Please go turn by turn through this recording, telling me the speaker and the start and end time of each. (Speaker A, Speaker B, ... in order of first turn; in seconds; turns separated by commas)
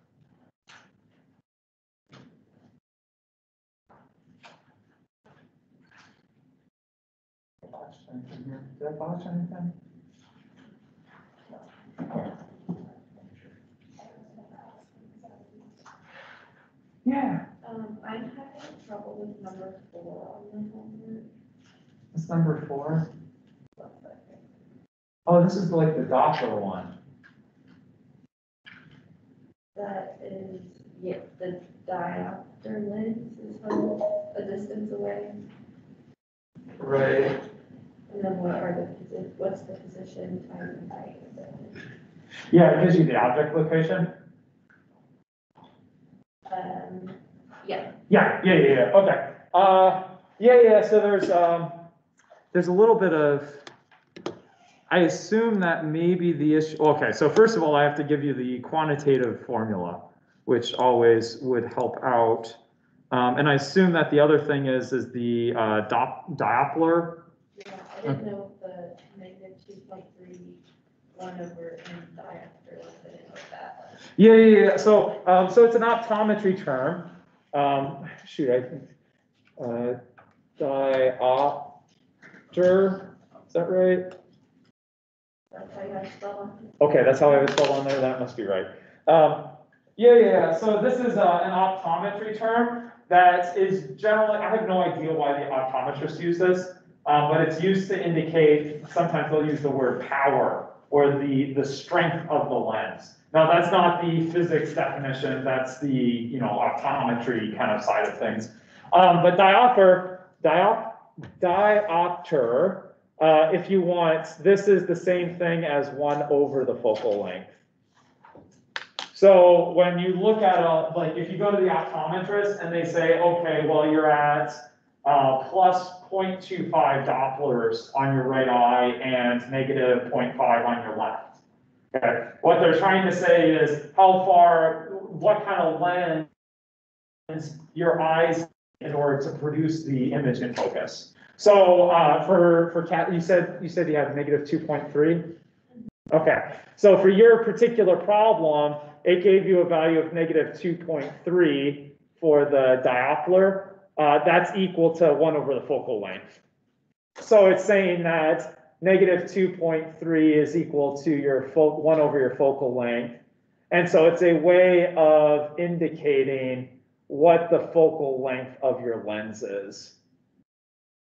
Speaker A: 7.7-9.7, Speaker B: 14.1-15.7, Speaker A: 17.0-17.4, Speaker B: 17.6-21.3, Speaker A: 22.1-23.1, Speaker B: 23.8-24.4, Speaker A: 25.3-26.9, Speaker B: 29.8-35.4, Speaker A: 36.8-37.4, Speaker B: 38.1-41.8, Speaker A: 42.5-44.1, Speaker B: 46.5-47.9, Speaker A: 48.1-51.8, Speaker A: 52.5-53.6, Speaker A: 54.9-62.6, Speaker A: 63.1-67.2, Speaker B: 67.5-70.6, Speaker B: 71.1-73.9, Speaker A: 74.2-78.8, Speaker A: 79.6-80.0, Speaker A: 80.6-81.7, Speaker A: 82.5-84.1, Speaker B: 85.5-86.8, Speaker A: 86.8-117.5, Speaker A: 119.1-131.4, Speaker A: 131.9-136.3, Speaker A: 137.3-145.3, Speaker A: 146.1-156.2, Speaker A: 157.2-163.2, Speaker A: 163.7-169.9